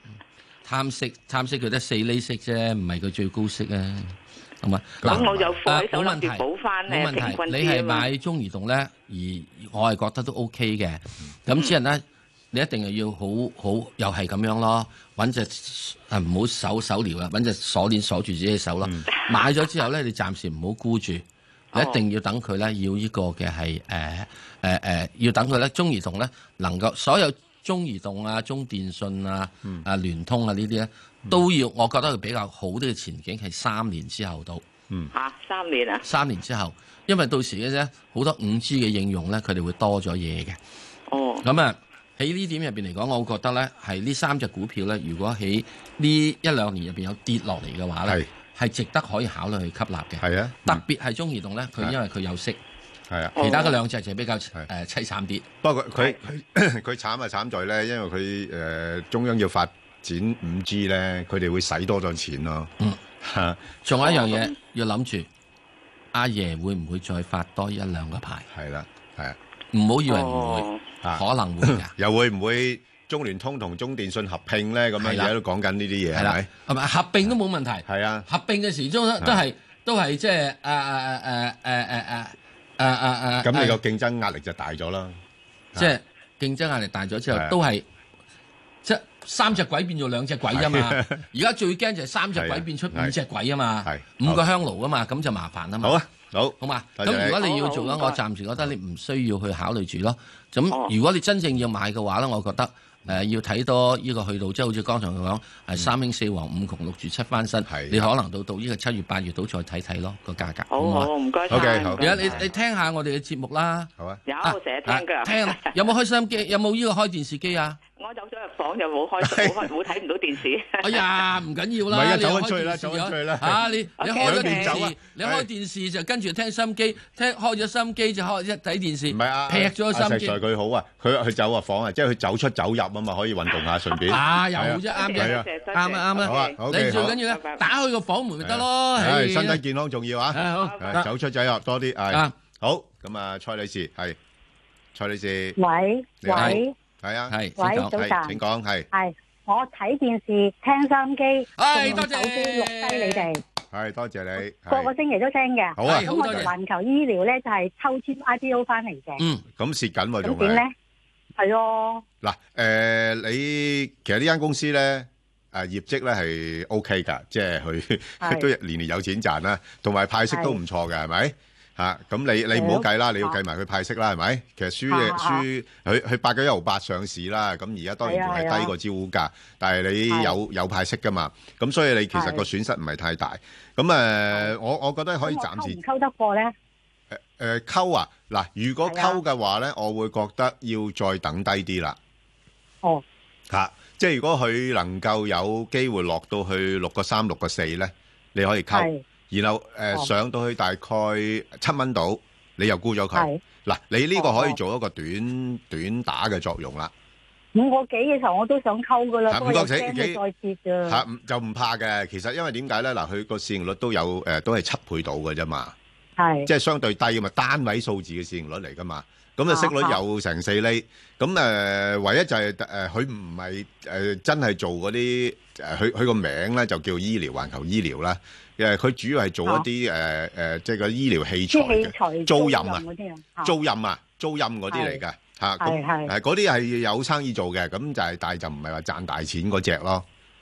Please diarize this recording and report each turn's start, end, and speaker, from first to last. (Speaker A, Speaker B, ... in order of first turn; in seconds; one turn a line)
Speaker A: 0.6-34.6
Speaker B: 5.0-5.5
Speaker C: 5.0-8.1
Speaker C: 21.7-22.0
Speaker C: 35.1-36.0
Speaker A: 36.0-40.6
Speaker C: 41.1-41.4
Speaker A: 41.4-52.6
Speaker B: 50.2-50.8
Speaker C: 53.4-53.8
Speaker A: 53.4-55.5
Speaker B: 55.6-62.7
Speaker B: 63.2-63.8
Speaker A: 63.8-65.3
Speaker C: 64.1-64.5
Speaker A: 66.1-68.5
Speaker B: 68.5-69.4
Speaker A: 69.7-71.9
Speaker C: 70.1-70.8
Speaker B: 71.0-76.5
Speaker A: 75.0-75.3
Speaker A: 76.1-83.8
Speaker B: 77.9-78.3
Speaker B: 83.4-85.2
Speaker A: 85.8-87.8
Speaker B: 87.3-87.6
Speaker A: 88.8-96.0
Speaker B: 90.5-91.2
Speaker B: 92.3-93.1
Speaker B: 93.8-94.4
Speaker B: 95.8-97.4
Speaker A: 96.6-113.9
Speaker C: 97.4-98.2
Speaker B: 107.7-108.1
Speaker C: 110.7-112.4
Speaker B: 111.5-112.4
Speaker C: 114.2-115.8
Speaker A: 114.4-117.8
Speaker C: 117.9-121.0
Speaker B: 119.2-119.7
Speaker A: 120.8-130.4
Speaker B: 121.9-123.6
Speaker C: 124.0-124.8
Speaker B: 124.2-125.5
Speaker B: 129.1-135.5
Speaker A: 134.1-139.6
Speaker C: 134.9-137.6
Speaker B: 136.2-137.2
Speaker B: 138.4-144.2
Speaker A: 140.3-141.1
Speaker C: 140.6-141.0
Speaker B: 144.9-145.6
Speaker D: 145.6-146.7
Speaker B: 146.2-148.9
Speaker A: 146.3-146.6
Speaker A: 147.3-148.0
Speaker D: 147.6-148.4
Speaker D: 148.9-153.4
Speaker A: 151.6-153.3
Speaker B: 153.7-154.9
Speaker D: 154.7-159.2
Speaker B: 155.7-156.5
Speaker A: 155.8-156.5
Speaker A: 159.2-159.4
Speaker B: 159.6-160.6
Speaker D: 160.2-160.7
Speaker D: 161.4-162.0
Speaker B: 162.2-185.8
Speaker D: 168.2-168.5
Speaker D: 170.3-170.6
Speaker D: 172.5-173.4
Speaker D: 174.9-175.4
Speaker D: 178.0-178.7
Speaker D: 180.1-180.4
Speaker D: 182.1-182.4
Speaker D: 185.2-186.5
Speaker B: 187.1-192.0
Speaker D: 188.9-189.2
Speaker B: 193.5-206.9
Speaker D: 198.7-199.0
Speaker D: 203.1-203.4
Speaker D: 204.2-204.6
Speaker D: 207.6-211.0
Speaker B: 209.3-210.2
Speaker B: 210.9-215.7
Speaker D: 216.2-216.5
Speaker B: 216.4-232.8
Speaker D: 219.5-220.0
Speaker D: 231.5-233.5
Speaker B: 233.4-240.1
Speaker D: 234.7-235.0
Speaker D: 235.6-236.1